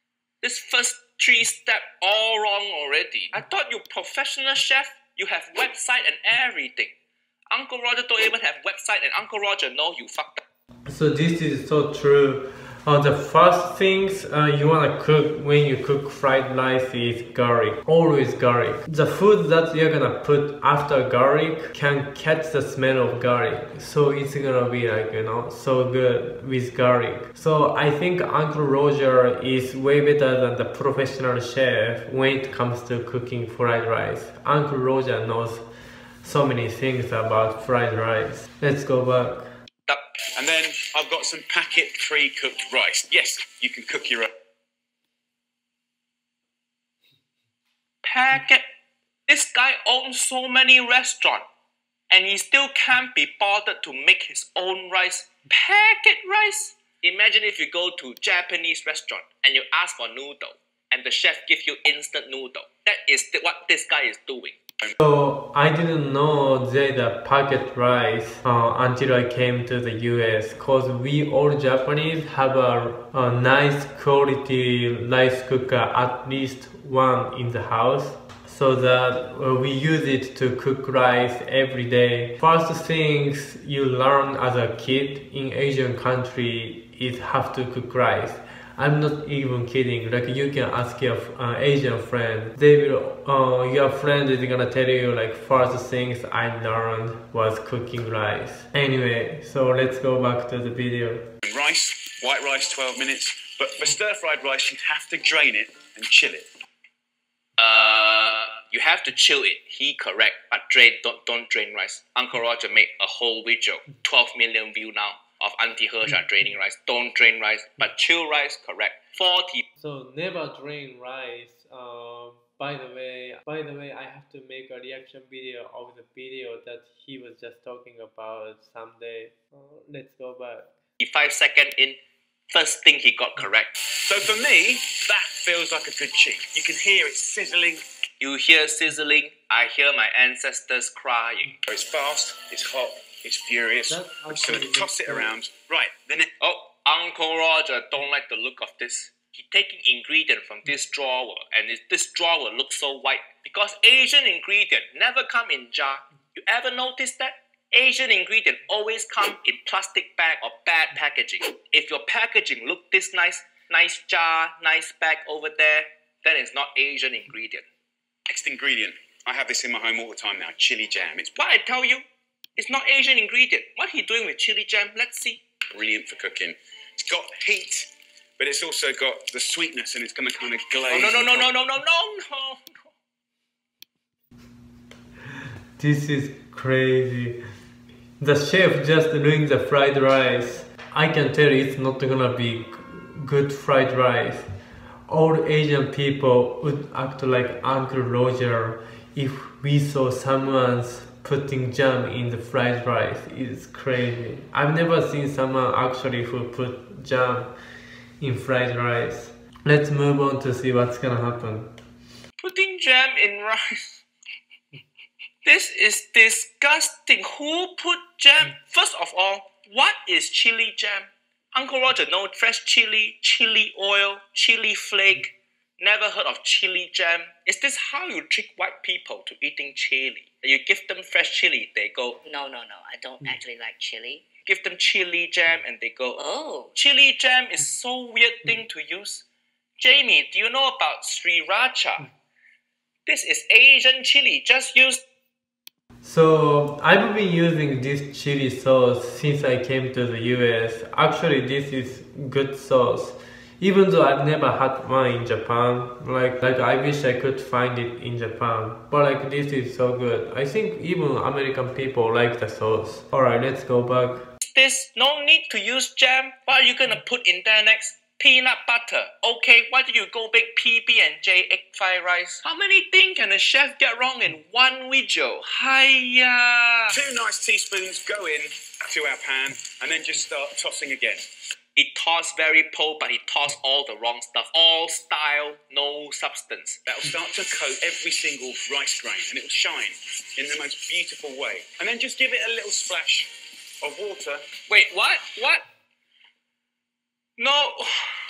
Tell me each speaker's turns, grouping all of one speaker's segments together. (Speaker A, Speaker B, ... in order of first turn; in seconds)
Speaker A: 0.4-6.9, 7.5-10.4, 48.0-48.6, 49.3-51.4, 52.1-64.6, 107.6-119.6, 131.0-132.0, 132.5-133.7, 138.2-141.6, 146.4-167.6, 171.3-172.1, 172.6-175.4, 180.9-182.9, 212.4-214.0, 215.4-232.2, 234.4-239.2, 239.8-242.1, 243.1-245.0, 264.4-277.0, 281.8-286.8, 294.7-295.6, 297.4-298.1
Speaker B: 10.9-35.6, 36.2-39.5, 65.0-101.3, 119.8-130.7, 143.9-145.3, 185.8-187.4, 188.2-194.5, 195.1-207.5, 208.2-211.7, 246.0-264.3
Speaker C: 40.4-44.3, 101.4-106.5, 133.9-137.8, 141.7-146.3, 168.3-171.3, 175.7-181.5, 276.9-281.2, 286.9-294.4
Speaker D: 232.2-234.3, 236.2-236.7